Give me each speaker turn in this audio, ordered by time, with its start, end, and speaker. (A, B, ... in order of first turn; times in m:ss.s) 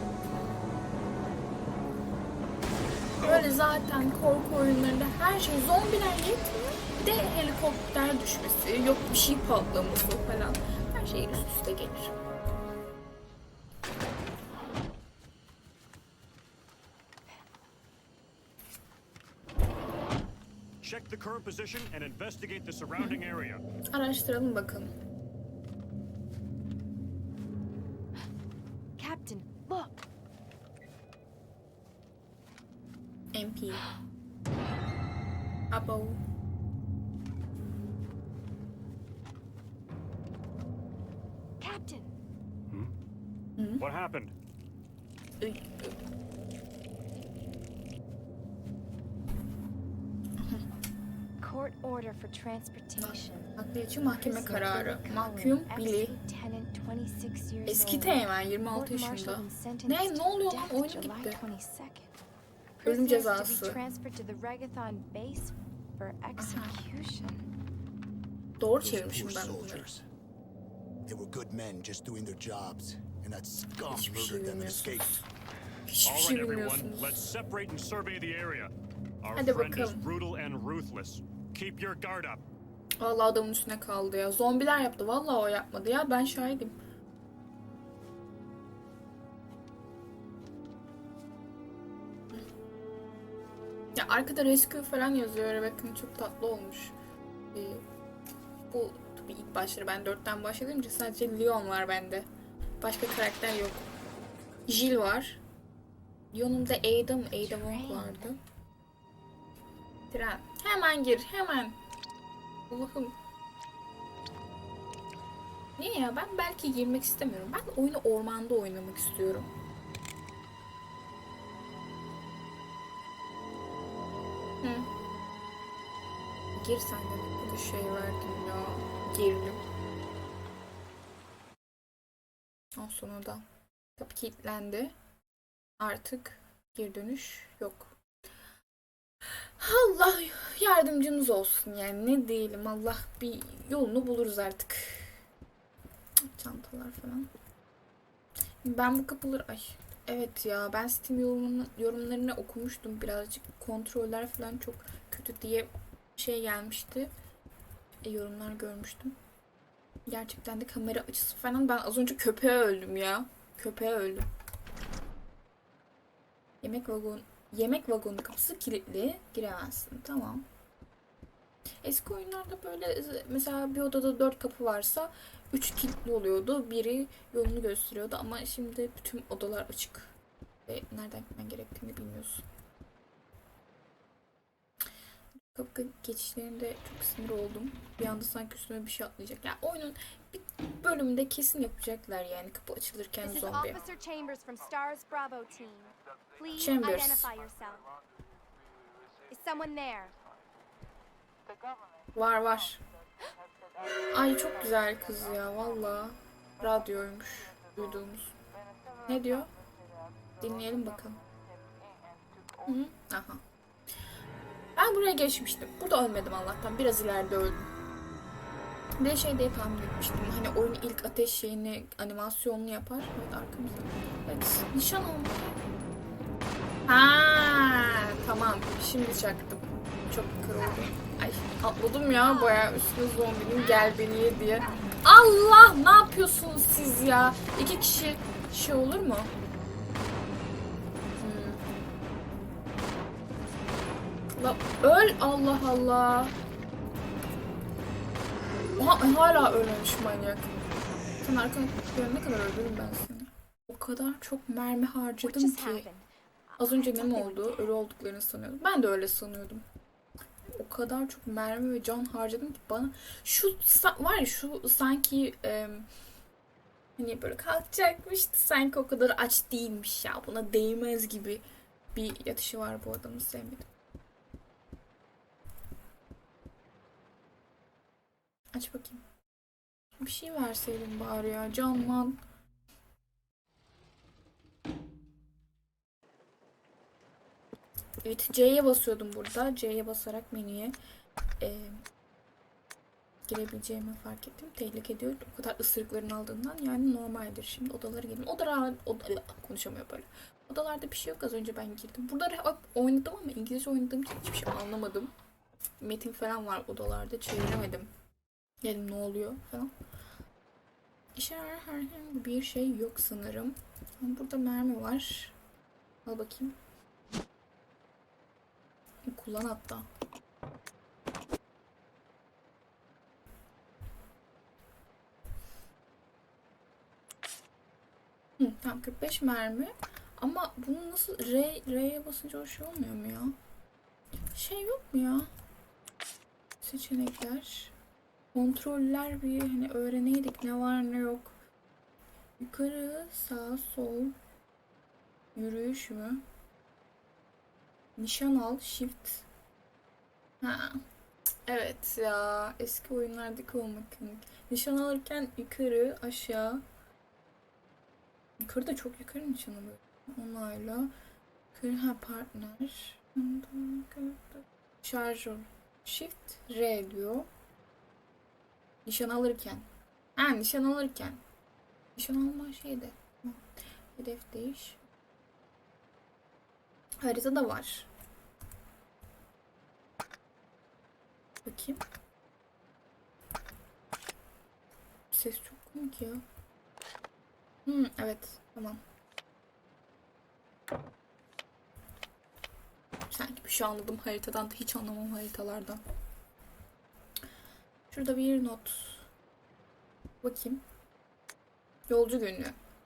0:03.2-0:12.1 A
0:20.8-0:23.6 B
0:23.9-0:24.9 A
0:29.0-0:30.1 C
0:33.3-0:33.8 A
0:35.7-0:36.2 A
0:41.6-0:42.1 C
0:43.6-0:43.9 A
0:43.8-0:44.3 B
0:45.4-0:45.9 A
0:50.4-0:50.7 A
0:51.4-0:53.6 C
0:53.0-0:56.2 A
0:54.1-1:02.1 C
0:57.7-1:01.4 A
1:02.8-1:07.5 C
1:02.8-1:03.8 A
1:06.4-1:06.8 A
1:08.6-1:09.9 A
1:08.8-1:10.0 D
1:11.0-1:15.3 D
1:13.9-1:15.2 A
1:15.9-1:17.3 A
1:16.0-1:18.7 B
1:19.2-1:22.4 B
1:19.3-1:20.0 A
1:23.0-1:26.8 A
1:33.9-1:37.0 A
1:37.5-1:37.8 A
1:38.7-1:42.3 A
1:42.8-1:43.9 A
1:44.7-1:45.4 A
1:46.3-1:48.4 A
1:47.3-1:48.3 C
1:50.1-1:51.8 A
1:52.7-1:53.1 A
1:55.8-1:59.5 A
2:04.6-2:04.9 A
2:06.6-2:09.6 A
2:12.8-2:13.4 A
2:14.0-2:14.9 A
2:15.8-2:17.9 A
2:19.6-2:25.2 A
2:26.2-2:27.3 A
2:28.6-2:37.1 A
2:38.0-2:39.1 A
2:40.1-2:44.3 A
2:46.6-2:50.4 A
2:51.8-3:00.1 A
3:00.7-3:02.4 A
3:05.5-3:13.8 A
3:13.2-3:17.9 E
3:16.6-3:17.3 A
3:19.3-3:20.1 E
3:22.1-3:22.8 A
3:24.1-3:28.4 A
3:29.1-3:29.5 A
3:30.4-3:31.2 A
3:32.7-3:33.4 A
3:34.8-3:37.7 A
3:39.0-3:45.5 A
3:46.9-3:59.3 A
4:01.2-4:01.6 A
4:04.4-4:06.4 A
4:08.8-4:10.6 A
4:11.2-4:15.9 A
4:15.3-4:16.0 C
4:16.6-4:19.6 A
4:16.9-4:17.5 C
4:20.6-4:25.9 A
4:27.0-4:31.4 A
4:31.9-4:33.7 A
4:38.5-4:39.0 A
4:40.0-4:42.2 A
4:48.0-4:50.8 A
4:51.4-4:51.8 A
4:53.3-5:05.1 A
5:05.8-5:07.9 A
5:08.6-5:09.7 A
5:11.2-5:15.4 A
5:16.1-5:16.6 A
5:19.1-5:19.9 A
5:28.4-5:33.4 A
5:34.3-5:35.3 A
5:36.6-5:37.7 A
5:38.3-5:41.4 A
5:42.4-5:44.2 A
5:45.3-5:46.2 A
5:48.0-5:49.3 A
5:50.4-5:50.8 A
5:51.5-5:56.6 A
5:58.4-6:00.9 A
6:01.5-6:07.3 A
6:08.8-6:11.2 A
6:12.0-6:13.4 A
6:14.0-6:14.8 A
6:17.0-6:17.9 A
6:21.4-6:21.8 A
6:25.1-6:26.2 A
6:27.7-6:28.8 A
6:33.1-6:35.8 A
6:37.9-6:39.1 A
6:40.2-6:40.6 A
6:41.9-6:42.6 A